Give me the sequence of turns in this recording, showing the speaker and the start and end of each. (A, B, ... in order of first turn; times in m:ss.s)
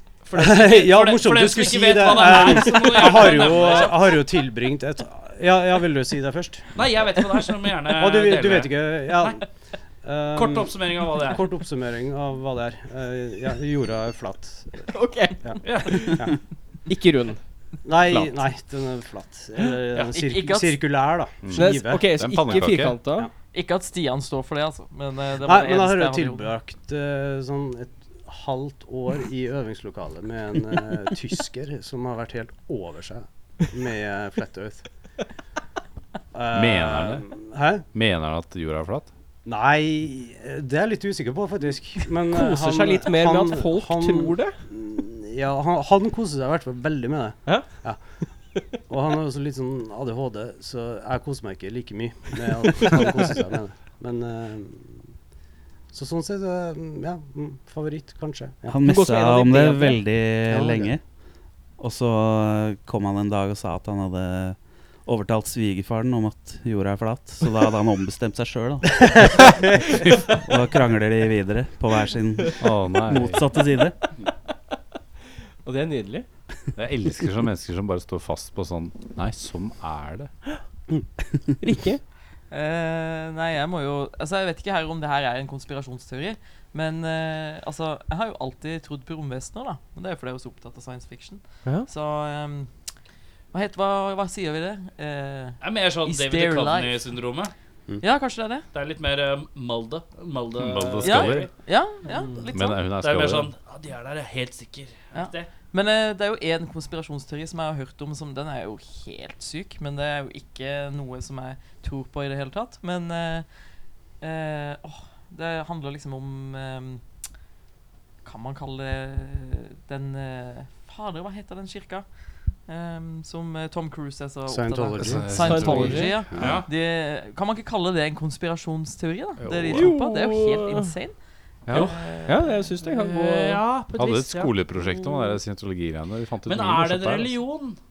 0:00.2-0:04.0 A
0:00.3-0:06.7 B
0:06.8-0:09.4 A
0:07.9-0:09.5 B
0:10.0-0:14.9 B
0:10.3-0:11.4 A
0:14.9-0:16.2 C
0:15.4-0:16.3 B
0:15.6-0:16.1 A
0:16.9-0:17.4 C
0:17.8-0:22.1 B
0:18.1-0:18.4 D
0:20.1-0:20.8 E
0:21.4-0:23.0 D
0:21.5-0:23.3 C
0:23.5-0:26.5 E
0:25.4-0:34.8 B
0:36.3-0:37.9 B
0:36.5-0:37.3 D
0:37.9-0:39.1 D
0:39.4-0:48.0 B
0:42.3-0:44.6 C
0:48.9-0:55.1 B
0:55.9-0:58.8 B
0:58.7-1:01.2 F
0:58.8-1:00.1 C
1:00.4-1:01.0 B
1:01.8-1:14.0 F
1:12.6-1:13.4 D
1:15.6-1:16.3 C
1:16.8-1:20.3 D
1:21.6-1:22.0 C
1:22.5-1:32.7 E
1:33.5-1:37.0 E
1:35.6-1:37.5 A
1:38.0-1:38.7 E
1:38.7-1:41.5 A
1:40.6-1:41.5 D
1:41.0-1:42.8 E
1:42.5-1:43.5 D
1:43.0-1:45.5 A
1:45.1-1:53.5 E
1:54.2-1:57.0 E
1:58.2-2:02.1 E
2:02.7-2:11.2 E
2:04.5-2:05.3 B
2:05.0-2:06.6 D
2:05.3-2:06.2 C
2:06.4-2:06.7 A
2:09.4-2:09.9 D
2:09.7-2:11.0 C
2:11.7-2:11.9 A
2:11.7-2:12.6 E
2:11.7-2:13.6 C
2:12.9-2:14.5 A
2:14.0-2:17.4 D
2:14.9-2:15.2 E
2:16.5-2:17.8 A